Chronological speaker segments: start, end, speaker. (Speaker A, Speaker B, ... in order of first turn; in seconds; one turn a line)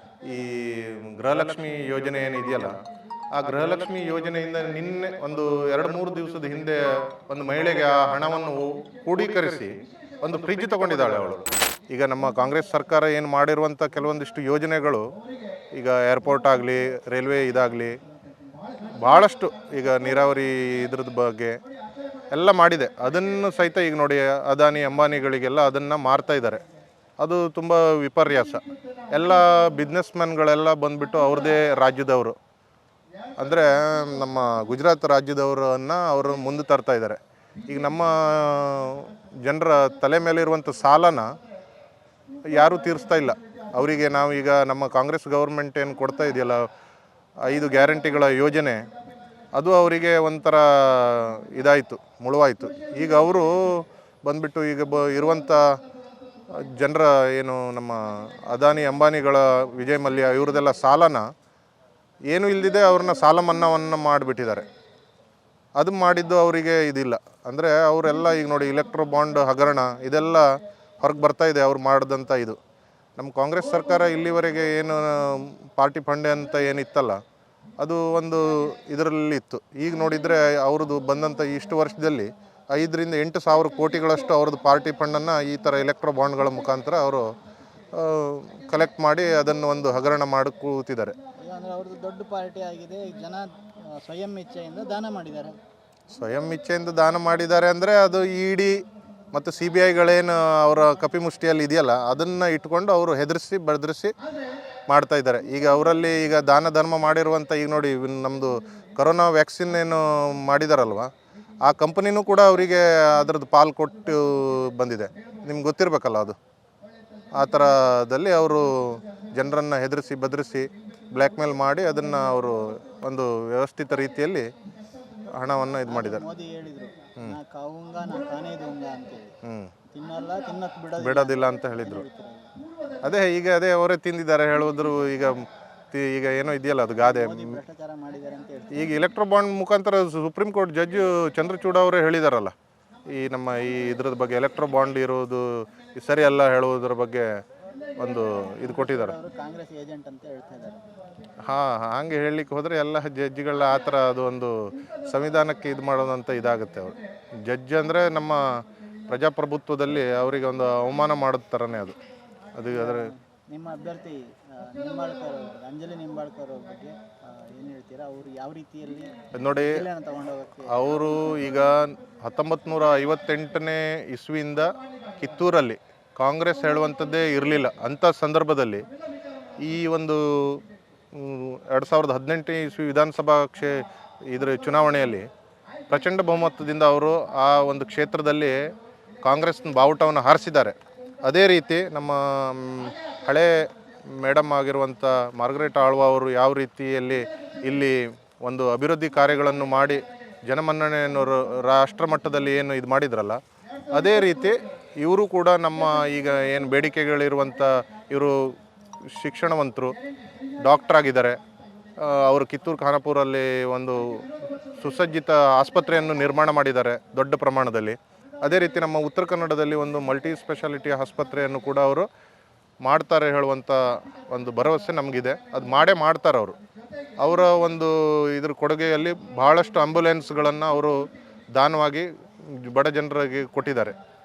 Speaker A: 0.2-2.8
Speaker A: 3.3-15.1
Speaker A: 15.7-18.0
Speaker A: 19.0-21.6
Speaker A: 22.3-26.6
Speaker A: 27.2-32.4
Speaker A: 33.4-41.3
Speaker A: 42.5-46.7
Speaker A: 47.4-48.8
Speaker A: 49.5-55.6
Speaker A: 56.5-61.2
Speaker A: 62.3-64.7
Speaker A: 65.8-70.5
Speaker A: 71.0-72.6
Speaker A: 73.2-77.2
Speaker A: 77.8-87.3
Speaker A: 87.9-91.1
Speaker B: 91.4-95.5
Speaker A: 96.1-98.8
Speaker A: 99.3-104.1
Speaker A: 104.9-111.1
Speaker A: 111.6-116.4
Speaker A: 117.4-124.5
Speaker A: 125.4-126.2
Speaker B: 125.8-129.3
Speaker A: 129.4-129.7
Speaker B: 129.9-132.5
Speaker A: 131.0-132.0
Speaker A: 133.0-137.6
Speaker B: 137.0-139.0
Speaker A: 138.7-142.5
Speaker A: 143.1-145.4
Speaker A: 146.0-147.3
Speaker A: 148.0-149.1
Speaker B: 148.6-150.8
Speaker A: 151.4-161.9
Speaker A: 162.6-163.1
Speaker B: 162.7-171.2
Speaker A: 169.3-169.8
Speaker A: 170.7-178.8
Speaker A: 179.6-180.6
Speaker A: 181.1-185.2
Speaker A: 185.9-188.6
Speaker A: 189.2-203.4
Speaker A: 203.9-208.6
Speaker A: 209.1-209.9
Speaker A: 210.6-211.4
Speaker A: 212.0-222.1
Speaker A: 222.8-226.6
Speaker A: 227.2-230.9
Speaker A: 231.6-233.9